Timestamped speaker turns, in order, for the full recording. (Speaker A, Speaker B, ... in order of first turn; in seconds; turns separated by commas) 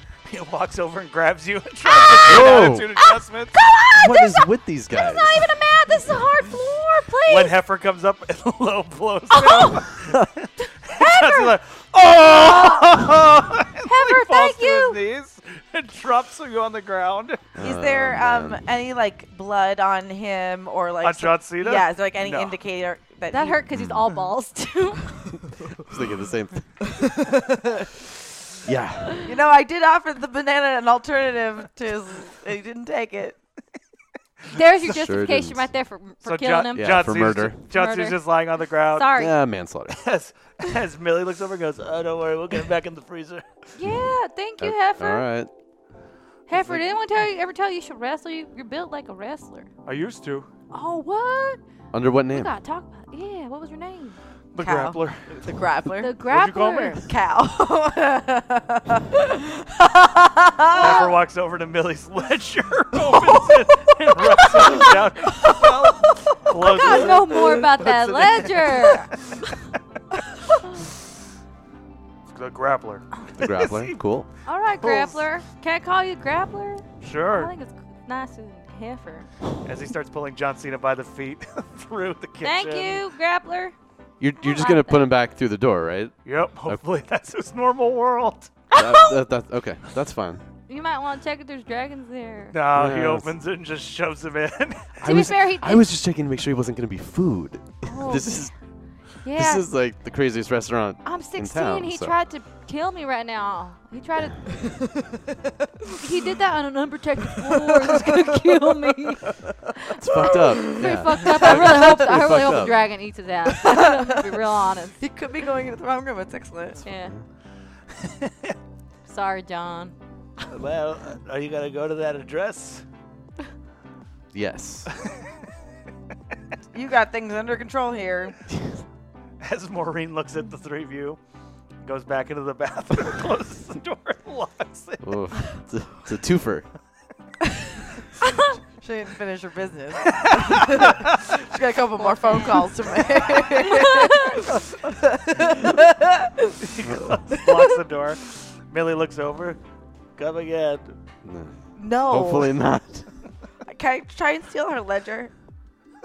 Speaker A: 0.2-3.5, Speaker B: 1.8-7.5, Speaker C: 2.2-2.9, Speaker C: 3.9-5.5, Speaker A: 7.3-17.5, Speaker B: 9.3-9.9, Speaker B: 10.6-11.6, Speaker B: 12.3-12.9, Speaker B: 13.8-15.0, Speaker C: 17.5-18.6, Speaker D: 17.6-23.6, Speaker A: 21.0-22.6, Speaker B: 23.3-25.3, Speaker C: 23.7-24.1, Speaker C: 25.7-26.9, Speaker D: 27.3-27.8, Speaker C: 28.6-29.2, Speaker D: 29.2-33.4, Speaker B: 34.5-37.0, Speaker C: 34.8-35.7, Speaker A: 36.2-39.2, Speaker C: 36.7-37.6, Speaker B: 37.7-38.2, Speaker B: 38.9-39.3, Speaker C: 39.1-40.0, Speaker A: 39.9-43.6, Speaker B: 43.8-45.2, Speaker C: 44.6-45.5, Speaker B: 46.5-49.7, Speaker A: 49.8-50.5, Speaker B: 50.7-51.6, Speaker C: 51.9-52.5, Speaker B: 52.3-54.2, Speaker A: 54.5-55.4, Speaker D: 54.6-56.2, Speaker B: 56.0-57.0, Speaker A: 56.3-57.0, Speaker D: 57.0-61.0, Speaker B: 60.7-61.1, Speaker A: 60.8-69.3, Speaker D: 64.4-66.1, Speaker B: 66.6-69.1, Speaker D: 66.7-67.2, Speaker A: 72.3-74.0, Speaker C: 73.4-74.3, Speaker B: 74.5-79.3, Speaker A: 74.8-75.2, Speaker A: 77.0-77.5, Speaker A: 79.6-83.0, Speaker B: 82.4-83.7, Speaker C: 84.2-86.1, Speaker B: 84.4-85.2, Speaker A: 86.2-88.5, Speaker B: 88.7-89.2, Speaker C: 88.7-90.4, Speaker B: 90.7-92.6, Speaker A: 92.5-95.0, Speaker C: 92.7-93.3, Speaker B: 95.0-95.8, Speaker C: 95.0-98.5, Speaker B: 97.8-98.5, Speaker B: 99.2-99.7, Speaker C: 99.3-102.1, Speaker B: 101.0-104.6, Speaker B: 105.9-115.0, Speaker D: 107.5-108.1, Speaker C: 109.9-112.8, Speaker D: 113.5-114.3, Speaker D: 115.0-116.8, Speaker B: 116.8-117.1, Speaker A: 118.0-118.5, Speaker B: 119.1-119.9, Speaker A: 120.5-122.8, Speaker C: 124.3-124.9, Speaker D: 126.7-128.3, Speaker A: 129.4-131.2, Speaker A: 131.8-135.0, Speaker C: 135.0-136.7, Speaker D: 138.8-146.6, Speaker A: 140.5-140.9, Speaker B: 142.0-142.7, Speaker B: 143.6-144.4, Speaker A: 146.6-149.6, Speaker C: 146.9-147.1, Speaker A: 150.2-150.9, Speaker C: 151.2-153.1, Speaker D: 151.8-152.5, Speaker D: 153.7-155.3